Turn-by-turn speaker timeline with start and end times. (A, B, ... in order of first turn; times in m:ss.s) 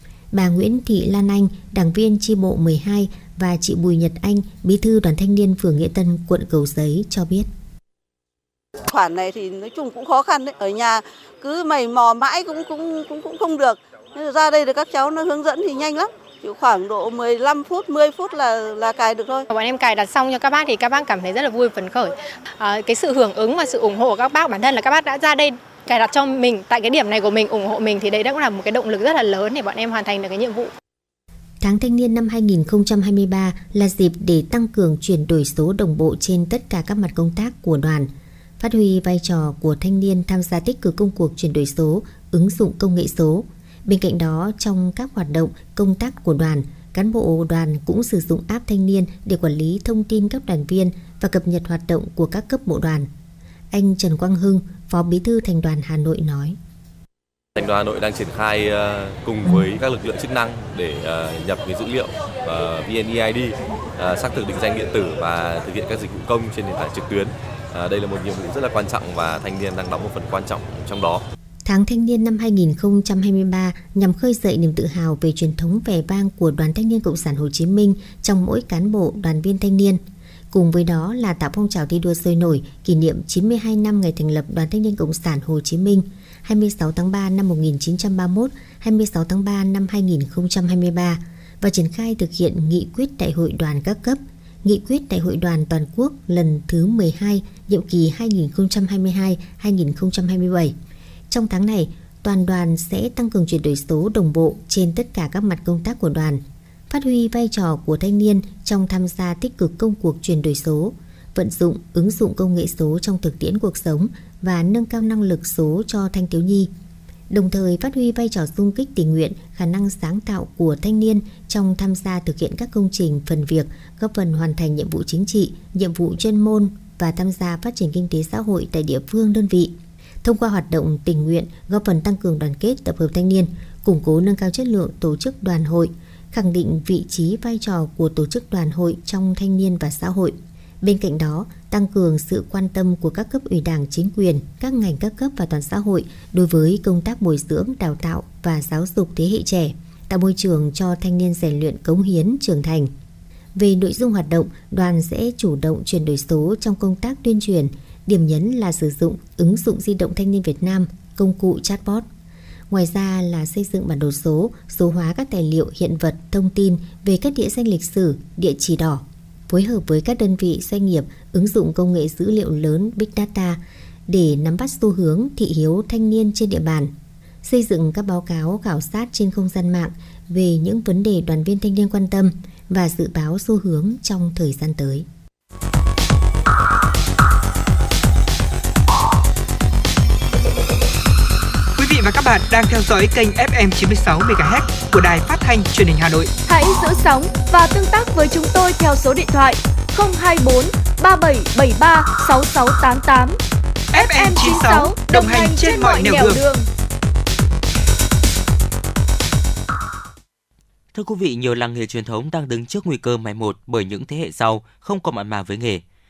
0:00.3-0:07.5 A
0:08.8-0:19.4 B
0:19.5-0:30.7 C
0:31.6-0:53.1 A
0:53.7-0:56.6 A
0:57.6-1:11.2 D
1:11.6-1:20.0 A
1:20.5-1:40.7 A
1:41.3-1:56.7 A
1:57.3-2:32.9 A
2:33.6-2:42.0 A
2:42.7-2:56.9 A
2:57.4-3:05.0 A
3:11.8-3:16.3 E
3:16.5-3:23.4 F
3:23.9-3:26.4 E
3:23.9-3:26.7 F
3:30.9-3:35.8 G